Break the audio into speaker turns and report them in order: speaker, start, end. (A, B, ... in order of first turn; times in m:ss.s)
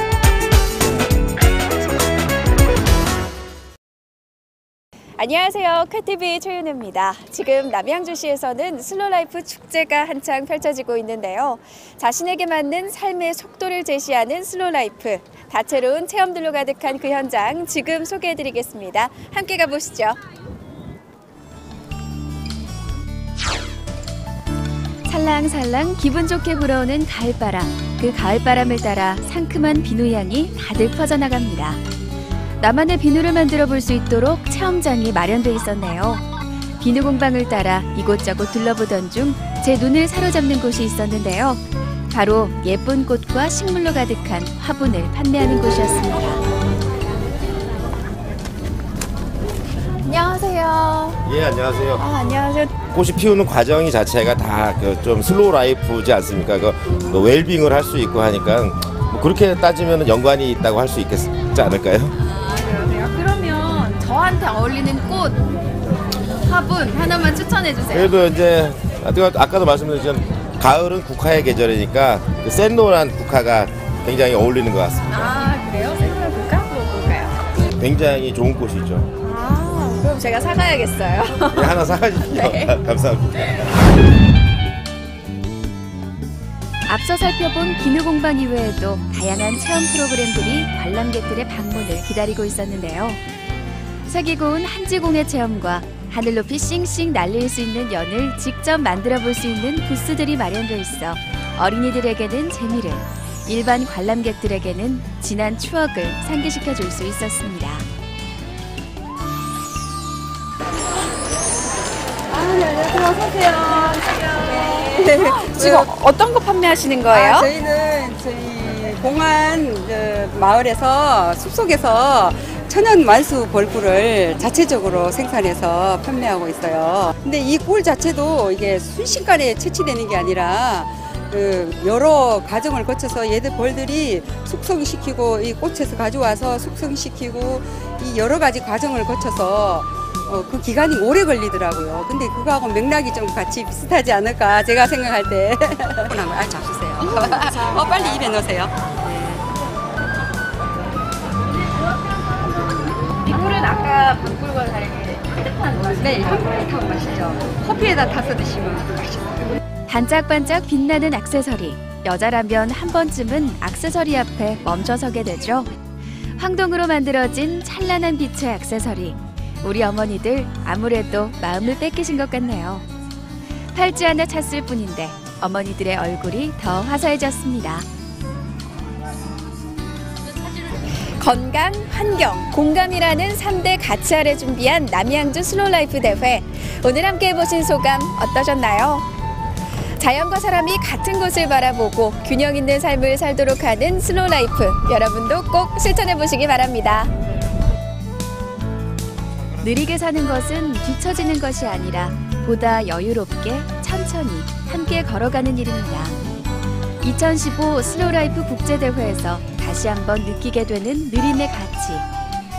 0:05.2-0:20.2 A
0:25.1-0:31.8 A
0:32.6-0:36.2 A
0:36.8-0:46.4 A
0:50.0-0:51.2 A
0:51.2-0:52.2 B
0:52.0-0:52.7 A
0:52.9-1:02.2 B
1:02.2-1:05.4 A
1:06.4-1:08.1 A
1:07.9-1:15.1 B
1:15.1-1:17.4 A
1:17.6-1:19.1 B
1:19.2-1:22.8 A
1:21.5-1:23.5 B
1:26.9-1:33.2 A
1:34.1-1:47.9 A
1:52.3-1:55.9 C
1:54.4-1:57.5 A
1:57.1-2:29.4 C
2:27.3-2:27.7 A
2:33.3-2:35.6 A
2:35.8-2:39.6 C
2:39.9-2:45.7 A
2:46.3-2:52.8 A
2:53.7-2:57.9 A
3:00.9-3:09.1 A
3:09.8-3:17.2 A
3:19.6-3:26.4 A
3:27.0-3:32.1 A